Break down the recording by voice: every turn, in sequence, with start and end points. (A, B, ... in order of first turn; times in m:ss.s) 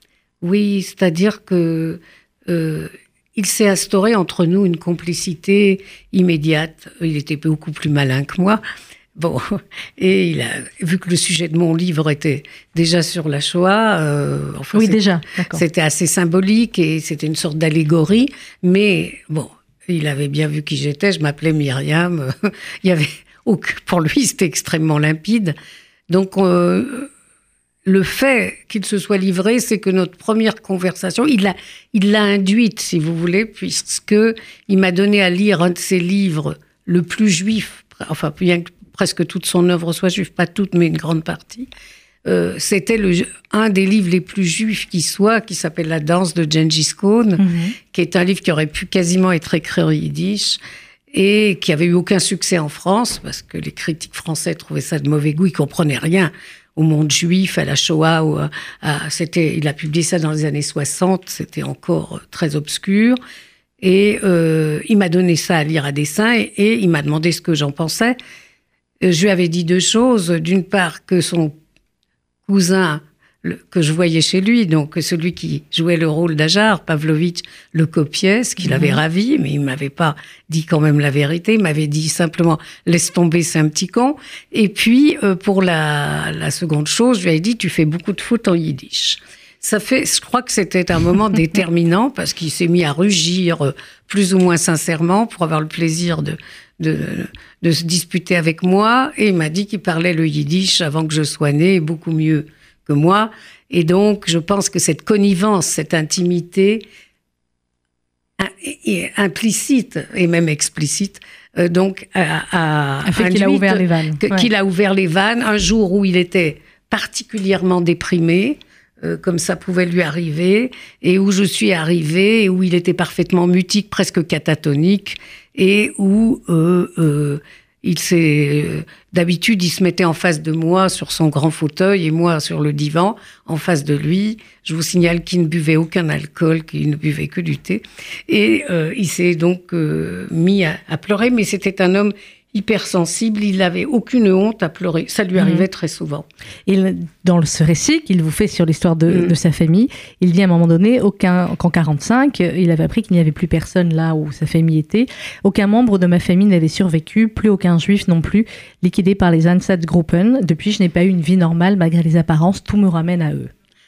0:00.4-0:08.6 A
0:09.2-0:25.5 A
0:14.7-0:15.6 B
0:26.1-0:27.1 A
0:27.8-0:41.7 A
0:42.2-0:50.6 A
0:47.4-0:47.7 B
0:51.1-1:03.2 A
1:03.8-1:08.2 A
1:09.0-1:11.5 A
1:12.4-1:46.8 A
1:18.6-1:19.0 B
1:48.4-2:26.2 A
1:53.0-1:54.5 B
2:25.4-2:25.6 B
2:26.7-2:43.5 B
2:29.1-2:29.3 A